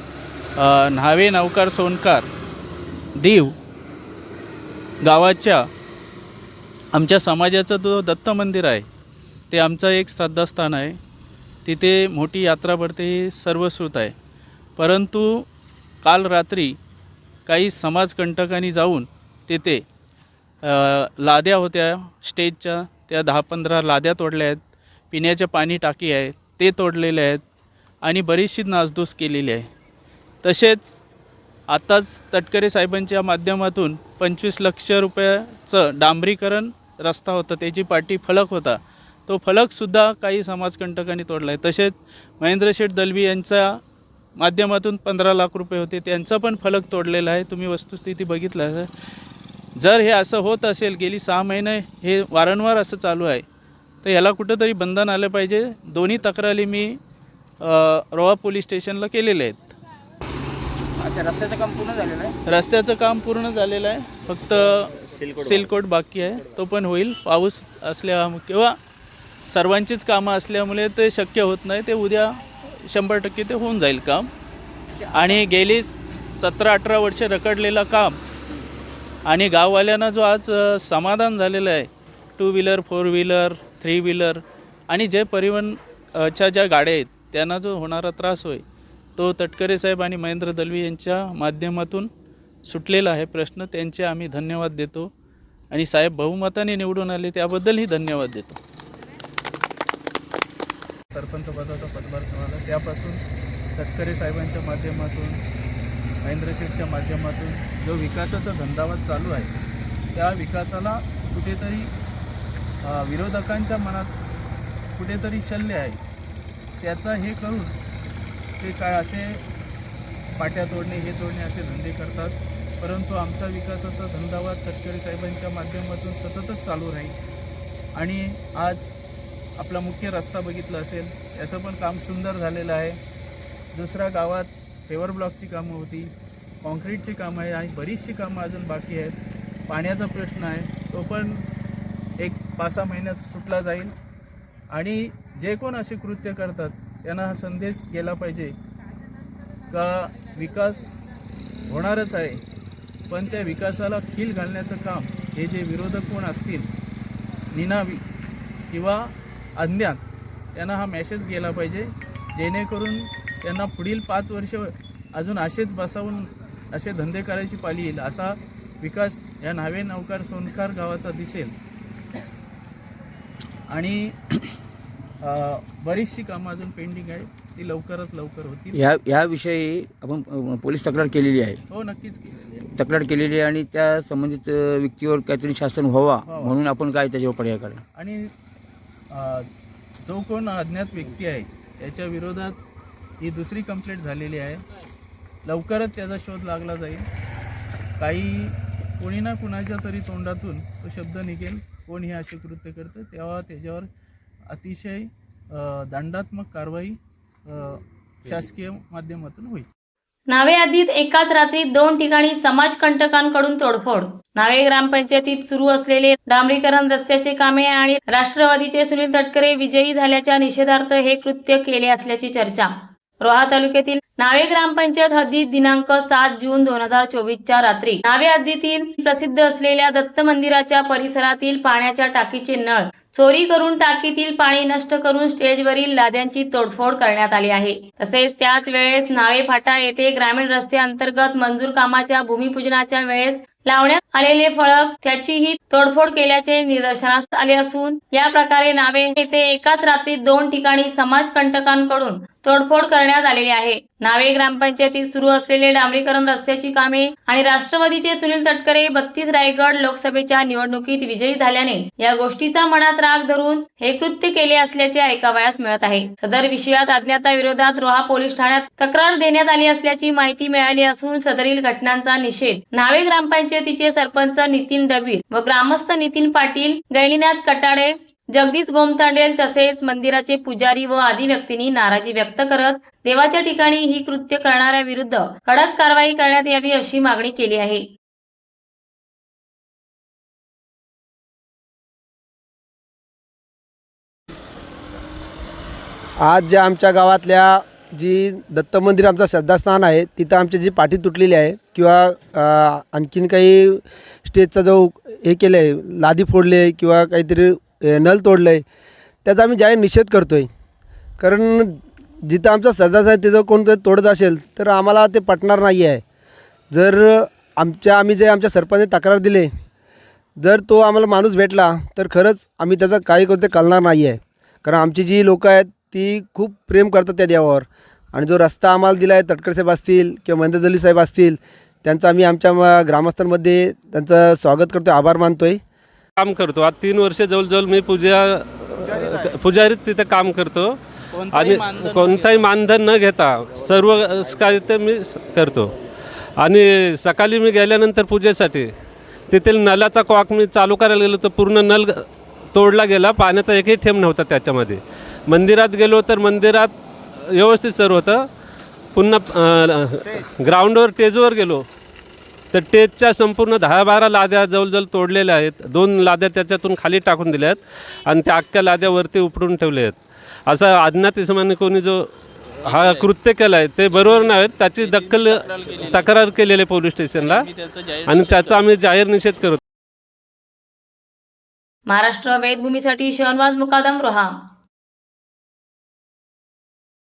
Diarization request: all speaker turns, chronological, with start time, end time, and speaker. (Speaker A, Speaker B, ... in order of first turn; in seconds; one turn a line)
Speaker A: 0.6-2.3
Speaker A: 3.2-3.5
Speaker A: 5.0-5.6
Speaker A: 6.9-8.8
Speaker A: 9.5-11.0
Speaker A: 11.6-14.1
Speaker A: 14.8-15.4
Speaker A: 16.0-16.8
Speaker A: 17.4-19.8
Speaker A: 20.6-24.6
Speaker A: 25.1-27.4
Speaker A: 28.0-29.7
Speaker A: 30.4-31.0
Speaker A: 31.7-43.8
Speaker A: 44.4-48.9
Speaker A: 49.8-53.4
Speaker A: 54.0-57.0
Speaker A: 57.6-59.7
Speaker B: 61.0-62.3
Speaker A: 62.5-68.8
Speaker A: 69.5-74.3
Speaker A: 75.1-78.2
Speaker A: 79.3-88.6
Speaker A: 89.2-92.1
Speaker A: 92.7-95.1
Speaker A: 95.7-98.6
Speaker A: 101.1-103.2
Speaker A: 103.8-105.4
Speaker A: 106.2-109.5
Speaker A: 110.1-111.9
Speaker A: 112.8-114.1
Speaker A: 115.0-116.0
Speaker A: 116.8-117.8
Speaker A: 118.6-119.4
Speaker A: 120.4-127.2
Speaker A: 127.9-128.9
Speaker A: 129.6-133.0
Speaker A: 133.7-139.2
Speaker A: 139.7-141.4
Speaker A: 142.2-143.9
Speaker A: 144.7-148.5
Speaker A: 149.7-151.1
Speaker A: 151.7-152.4
Speaker A: 153.1-156.7
Speaker A: 157.5-158.0
Speaker A: 158.7-160.0
Speaker A: 160.6-171.5
Speaker A: 173.7-174.5
Speaker A: 175.2-178.8
Speaker B: 178.9-181.6
Speaker A: 181.7-182.7
Speaker B: 182.8-187.8
Speaker A: 186.2-186.6
Speaker A: 187.9-188.3
Speaker A: 189.1-189.5
Speaker A: 190.0-192.6
Speaker A: 193.2-194.6
Speaker A: 195.4-197.1
Speaker A: 198.0-203.9
Speaker A: 204.5-209.7
Speaker C: 210.3-287.8
Speaker D: 296.2-308.6
Speaker D: 309.2-310.5
Speaker D: 311.2-316.0
Speaker D: 316.7-319.5
Speaker D: 320.4-335.6
Speaker E: 336.2-340.8
Speaker A: 338.8-339.3
Speaker A: 341.1-342.5
Speaker E: 341.3-345.7
Speaker E: 346.4-348.7
Speaker E: 349.3-356.7
Speaker E: 357.3-358.3
Speaker E: 358.9-361.6
Speaker E: 362.5-372.1
Speaker E: 372.6-377.5
Speaker A: 372.7-373.1
Speaker A: 373.9-376.2
Speaker A: 377.1-378.6
Speaker E: 378.1-379.6
Speaker C: 381.9-384.3